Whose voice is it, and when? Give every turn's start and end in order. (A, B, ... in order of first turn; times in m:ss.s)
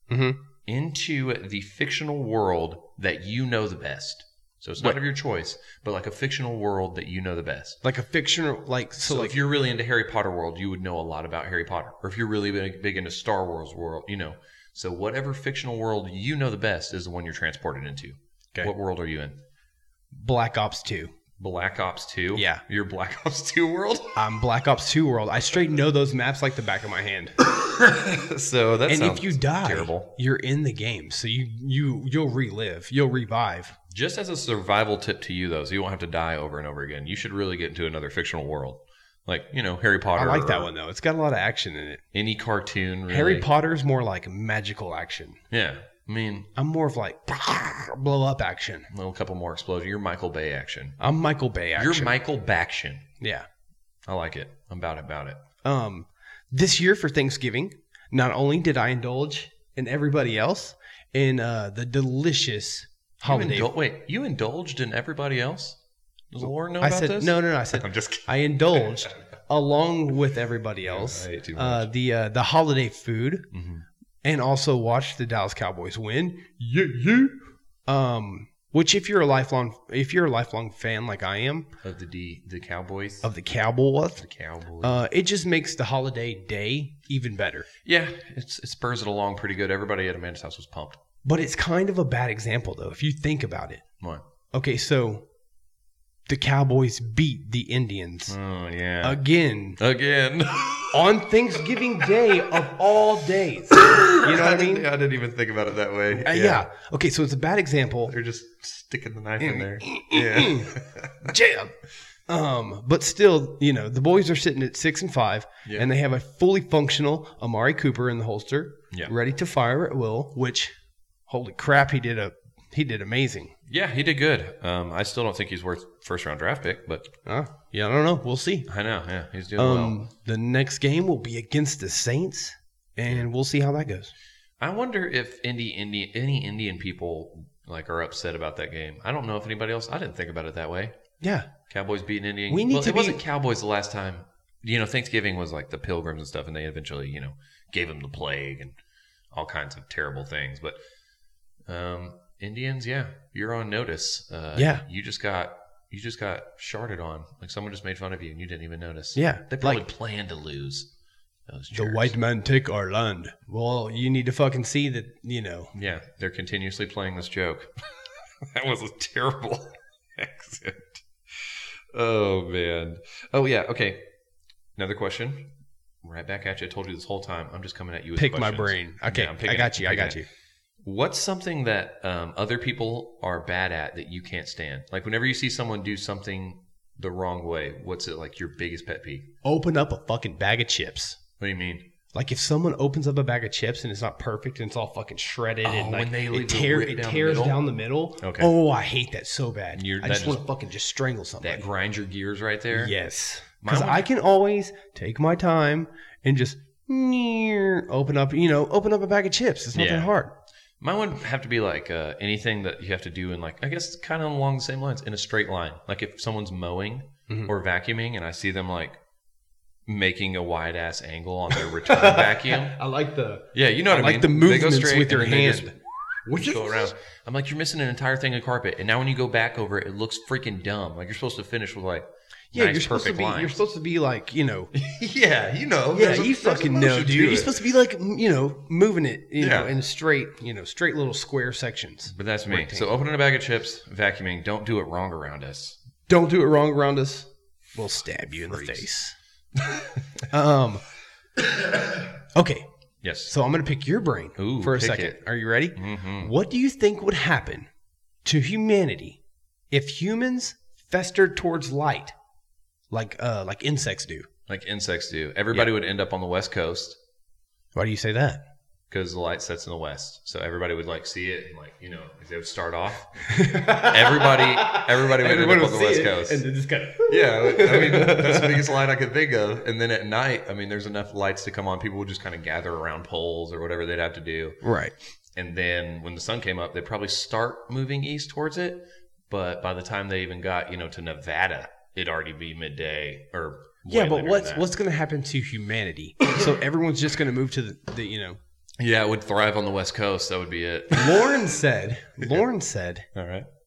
0:00.1-0:00.4 A
0:00.7-0:07.8 B
0:07.8-0:09.4 A
0:09.0-0:19.4 B
0:20.2-0:21.1 A
0:21.4-0:24.2 B
0:22.4-0:22.6 A
0:24.2-0:27.4 A
0:27.4-0:30.1 B
0:28.9-0:33.8 A
0:33.9-0:40.7 B
0:40.2-0:42.0 A
0:42.1-0:43.5 B
0:43.1-0:45.4 A
0:45.5-0:46.5 B
0:46.6-0:48.9 A
0:48.9-0:51.0 B
0:51.0-0:52.1 A
0:51.8-0:53.1 B
0:53.2-0:53.5 A
0:54.1-0:55.4 B
0:55.6-1:03.7 A
1:03.2-1:05.8 B
1:06.3-1:09.0 B
1:06.4-1:13.5 A
1:10.8-1:11.9 B
1:13.5-1:13.8 B
1:14.2-1:21.7 A
1:21.8-1:23.3 B
1:23.2-1:24.2 A
1:24.2-1:25.0 B
1:24.8-1:27.7 A
1:27.8-1:31.0 B
1:31.2-1:33.8 A
1:34.5-1:35.3 A
1:36.3-1:38.4 A
1:38.3-1:39.2 B
1:39.0-1:39.8 A
1:39.8-1:41.2 B
1:40.9-1:44.9 A
1:43.8-1:46.6 B
1:46.1-1:48.1 A
1:48.1-1:51.3 B
1:49.4-1:51.8 A
1:52.3-2:00.7 A
2:01.3-2:03.6 A
2:03.7-2:07.1 B
2:07.2-2:08.7 A
2:08.7-2:10.0 B
2:09.6-2:14.1 A
2:14.6-2:20.9 B
2:21.2-2:21.5 A
2:21.7-2:28.8 B
2:22.5-2:23.2 A
2:29.3-2:30.8 B
2:31.7-2:40.9 B
2:34.6-2:34.8 A
2:39.2-2:39.8 A
2:41.5-2:42.2 B
2:41.7-2:45.7 A
2:45.7-2:54.1 B
2:54.8-3:00.2 B
2:58.2-3:00.3 A
3:00.8-3:09.3 B
3:09.4-3:11.2 A
3:11.4-3:11.9 B
3:12.1-3:21.6 A
3:15.6-3:17.6 B
3:18.2-3:18.5 B
3:19.8-3:20.5 B
3:21.4-3:22.9 B
3:22.7-3:30.4 A
3:23.6-3:24.1 B
3:29.7-3:30.2 B
3:30.8-3:39.0 B
3:39.9-3:42.8 B
3:41.6-3:46.9 A
3:43.5-3:45.8 B
3:46.3-3:53.6 B
3:52.5-3:54.7 A
3:54.7-3:57.6 B
3:55.9-4:02.9 A
3:59.4-3:59.7 B
4:02.1-4:05.8 B
4:06.1-4:09.2 A
4:08.4-4:08.8 B
4:09.7-4:10.0 B
4:10.3-4:10.9 A
4:12.3-4:12.7 A
4:13.0-4:13.3 B
4:13.3-4:17.7 A
4:14.4-4:15.2 B
4:15.8-4:16.3 B
4:18.2-4:19.2 A
4:19.7-4:22.1 A
4:22.9-4:24.3 A
4:24.5-4:27.0 B
4:27.8-4:28.4 A
4:28.9-4:36.5 B
4:33.3-4:38.7 A
4:37.0-4:44.6 B
4:44.6-4:44.9 A
4:45.4-4:54.7 B
4:53.9-4:58.4 A
4:58.8-5:01.6 B
5:00.9-5:03.1 A
5:03.2-5:03.5 B